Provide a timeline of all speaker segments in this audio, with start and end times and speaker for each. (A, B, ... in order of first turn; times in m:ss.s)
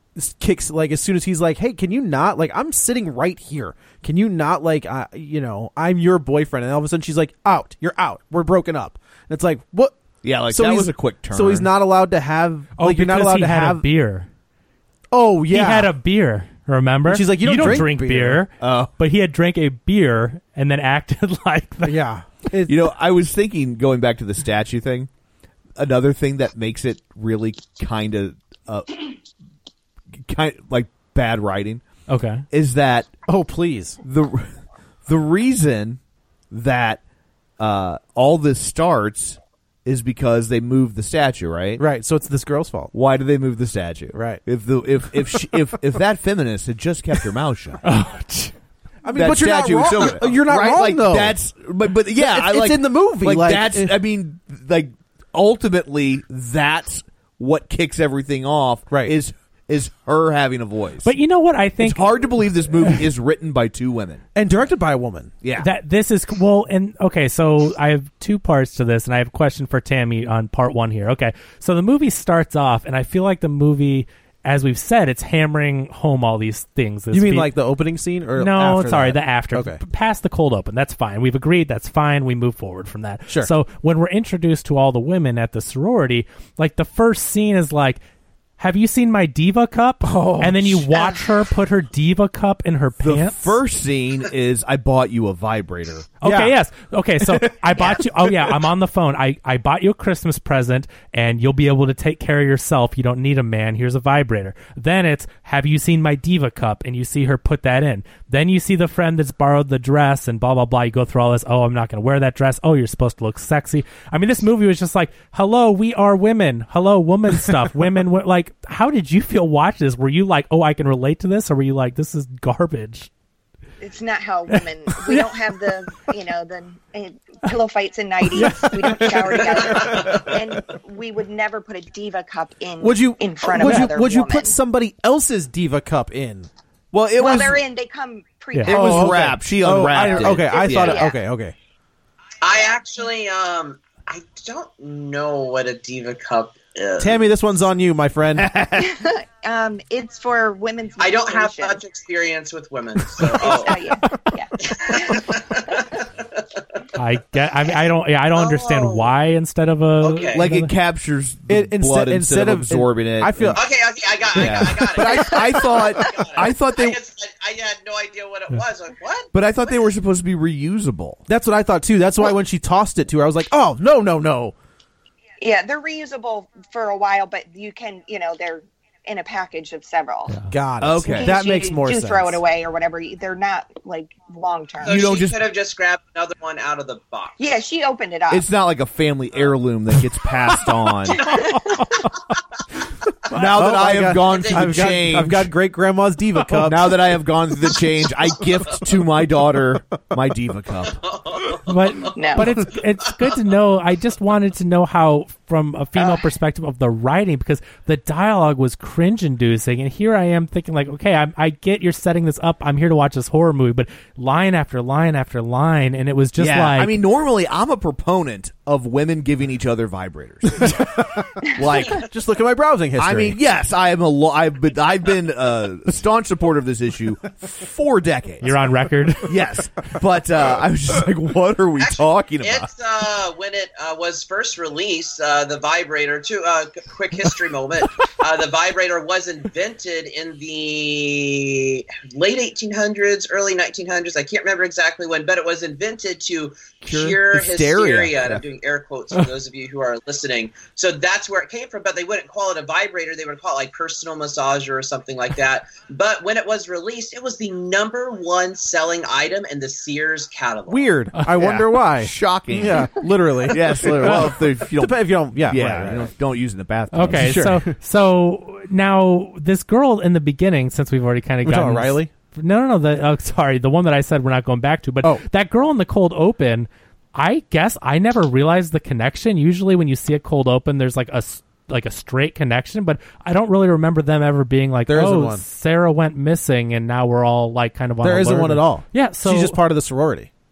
0:00.1-0:09.9 A
0:10.2-0:11.7 B
0:10.5-0:13.9 A
0:12.8-0:14.3 C
0:15.1-0:15.9 A
0:15.5-0:22.0 C
0:17.0-0:18.4 A
0:18.6-0:18.9 B
0:21.8-0:22.8 A
0:22.7-0:25.1 B
0:25.8-0:29.0 B
0:30.2-0:31.8 B
0:32.1-0:32.4 C
0:32.5-0:33.1 B
0:33.3-0:34.0 A
0:34.0-0:34.5 B
0:35.0-0:36.0 B
0:36.5-0:37.0 B
0:37.6-0:41.8 B
0:41.8-0:42.9 A
0:42.9-0:47.8 B
0:44.1-0:44.4 A
0:47.8-0:48.5 C
0:49.0-0:51.4 A
0:49.1-1:01.1 B
0:52.2-0:54.0 A
1:01.0-1:02.2 C
1:01.8-1:04.2 B
1:04.4-1:05.3 A
1:05.4-1:05.7 B
1:05.6-1:17.5 C
1:17.1-1:19.8 A
1:18.4-1:28.0 C
1:28.6-1:33.6 C
1:30.0-1:30.9 A
1:33.0-1:36.1 B
1:36.2-2:03.1 C
1:36.2-1:36.5 A
1:37.8-1:38.0 D
2:03.8-2:14.6 D
2:04.5-2:05.3 C
2:08.3-2:09.4 C
2:08.9-2:10.2 A
2:09.7-2:10.2 E
2:12.8-2:16.5 A
2:13.6-2:13.9 C
2:16.9-2:17.6 B
2:17.2-2:19.3 D
2:18.5-2:18.8 C
2:18.7-2:21.0 B
2:18.7-2:21.5 A
2:19.8-2:21.2 D
2:22.4-2:27.4 E
2:27.0-2:28.5 A
2:28.4-2:29.1 B
2:28.7-2:31.8 D
2:31.0-2:33.9 E
2:33.2-2:35.9 D
2:34.6-2:36.4 E
2:37.0-2:40.7 C
2:38.4-2:39.1 E
2:40.0-2:40.4 E
2:40.3-2:43.6 B
2:41.5-2:43.7 A
2:43.6-2:49.3 E
2:44.4-2:47.0 B
2:44.4-2:45.0 A
2:45.1-2:45.7 D
2:49.3-2:51.2 B
2:51.3-2:54.5 A
2:55.4-3:00.4 D
3:00.5-3:02.4 A
3:00.8-3:01.4 B
3:01.0-3:05.1 D
3:04.8-3:07.4 E
3:04.9-3:05.4 B
3:07.4-3:08.4 D
3:08.3-3:11.2 B
3:11.2-3:11.7 D
3:11.4-3:12.0 C
3:13.3-3:15.5 B
3:13.5-3:17.0 A
3:14.2-3:14.9 E
3:16.6-3:21.0 B
3:21.0-3:22.1 E
3:21.7-3:37.0 C
3:22.1-3:22.7 D
3:26.0-3:26.2 D
3:36.4-3:40.9 B
3:40.6-3:41.3 A
3:41.5-3:42.0 B
3:42.0-3:43.4 A
3:43.0-3:48.5 B
3:48.4-3:49.4 C
3:49.2-3:52.7 B
3:51.8-4:20.9 E
4:06.8-4:08.4 B
4:20.7-4:26.1 A
4:21.3-4:27.4 B
4:26.9-4:49.6 C
4:27.1-4:27.7 A
4:31.4-4:32.1 A
4:44.9-4:45.4 A
4:48.0-4:50.3 A